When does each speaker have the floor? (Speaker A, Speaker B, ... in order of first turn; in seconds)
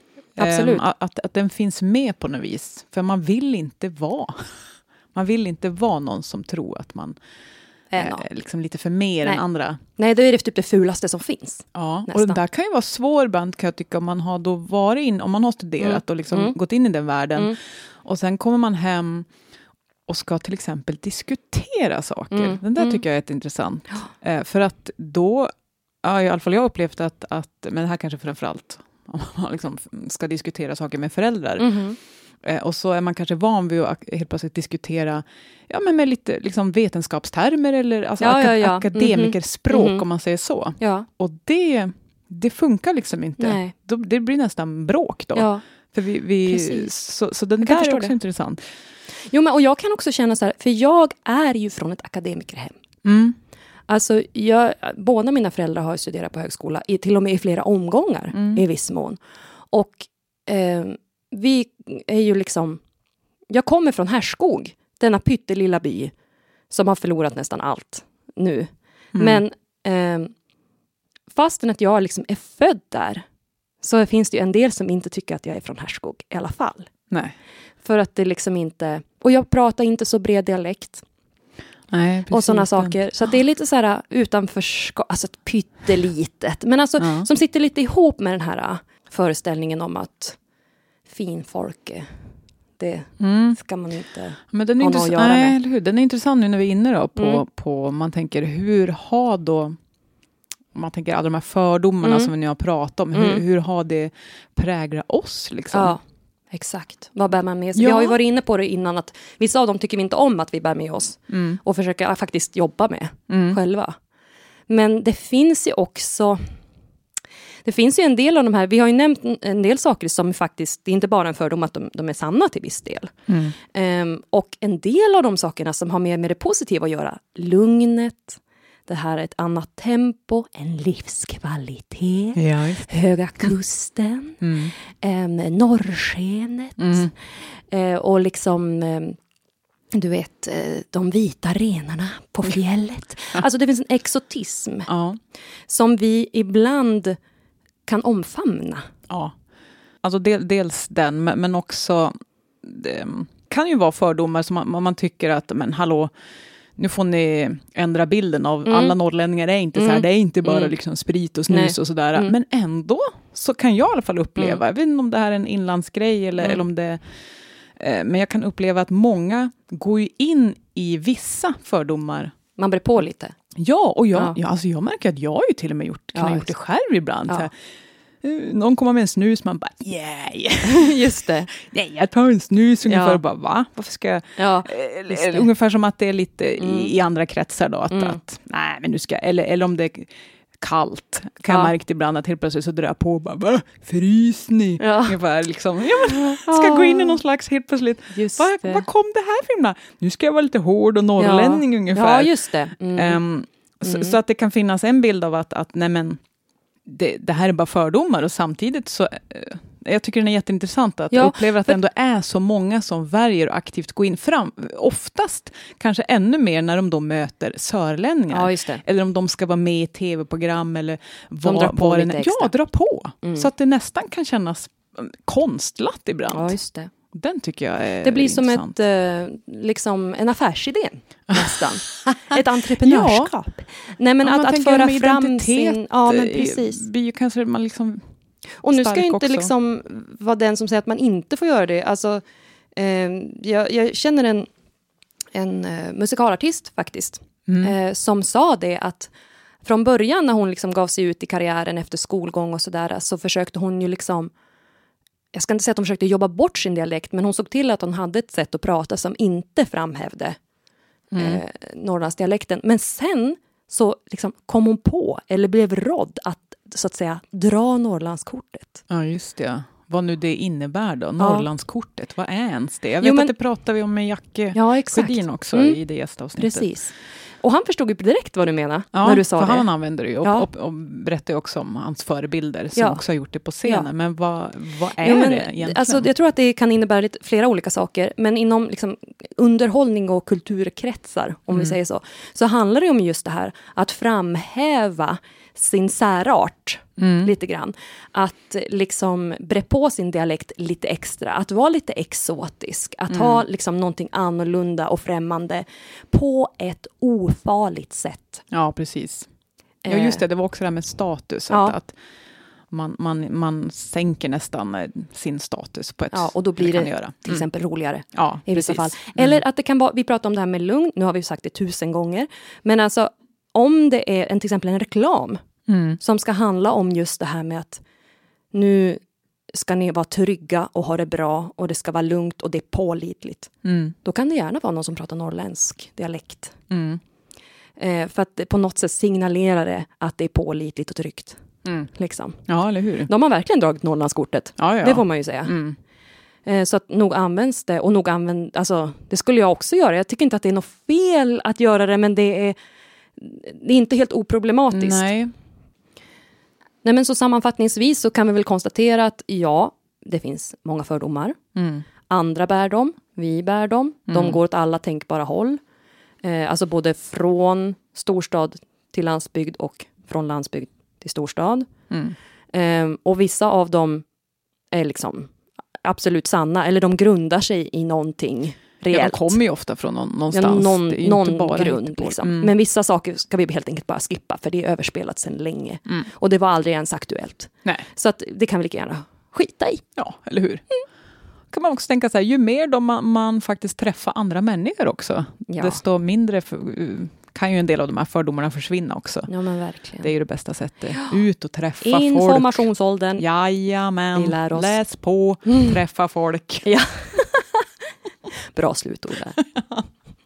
Speaker A: 0.4-0.8, 7.9-8.2, 9.9-12.4, 15.8-16.6, 22.3-23.0, 31.6-32.0, 38.2-40.0, 40.8-41.1, 43.4-43.7, 45.3-45.6, 46.5-47.0, 47.6-48.1, 49.3-52.8, 53.9-59.2, 59.7-62.8, 63.5-66.1, 66.7-70.3, 71.3-73.2, 73.8-76.9, 77.8-81.0, 82.3-90.4, 91.1-92.2, 92.8-95.6, 97.2-97.4, 102.0-102.3, 103.1-103.4, 105.7-106.0, 106.5-113.9, 114.7-116.4, 117.6-123.1, 123.6-139.2, 139.9-144.9, 145.7-147.2, 147.9-148.9, 158.7-158.9, 159.7-160.7, 161.5-162.3, 172.6-173.3, 176.1-176.5, 180.6-181.5, 182.9-183.2, 184.4-185.5, 186.6-186.9, 187.9-188.2, 194.8-195.2, 196.1-197.2, 198.1-198.8, 201.2-203.2, 203.8-204.2, 211.1-211.8, 218.3-218.8, 221.4-222.5, 223.2-223.5, 226.3-226.9, 228.0-236.8, 238.6-242.2, 242.8-244.5, 245.3-249.1, 249.6-254.3, 255.3-260.4, 261.2-268.8, 271.2-271.5, 273.0-273.3, 274.5-275.8, 276.4-279.7, 280.2-280.5, 282.8-283.0, 285.0-308.4, 309.8-310.2, 311.5-311.8, 316.1-325.4, 326.0-327.8, 328.5-333.5, 334.0-336.6, 337.8-341.4, 341.9-342.5, 343.1-345.6, 346.4-352.6, 353.2-355.1, 356.8-361.4, 362.1-365.6, 366.2-371.7, 372.5-374.1, 374.7-375.3, 375.8-379.4, 380.3-389.8, 395.5-395.8, 399.3-400.1, 401.8-403.2, 404.1-404.8, 406.6-407.7, 408.5-409.4
Speaker B: 0.4-4.6, 5.1-7.2, 8.0-9.8, 11.7-19.3, 20.1-25.5, 26.0-31.8, 32.4-48.6, 53.0-53.4, 58.3-58.6, 69.1-69.4, 81.9-83.0, 87.0-87.3, 93.2-93.6, 94.5-99.8, 100.7-106.0, 107.8-108.2, 111.3-111.6, 113.3-113.6, 123.3-123.5, 132.3-132.9, 134.4-134.7, 136.8-137.1, 144.9-145.2, 149.1-149.3, 150.0-156.1, 156.8-167.1, 167.8-172.3, 173.6-177.5, 178.2-202.3, 202.9-206.2, 206.9-226.5, 227.1-228.8, 231.4-232.2, 232.8-233.3, 234.2-238.1, 238.7-239.5, 247.5-247.7, 261.1-261.4, 268.9-276.7, 278.9-286.1, 297.0-297.3, 303.1-303.4, 308.5-309.3, 309.9-311.9, 312.7-317.4, 318.1-319.4, 325.7-326.0, 333.6-333.9, 336.7-337.0, 341.6-341.9, 342.5-343.1, 344.6-345.8, 354.7-355.3, 361.6-361.8, 364.1-364.4, 371.9-372.1, 378.9-382.5, 390.0-390.6, 391.5-399.3, 400.0-402.6, 403.2-406.7, 409.4-409.9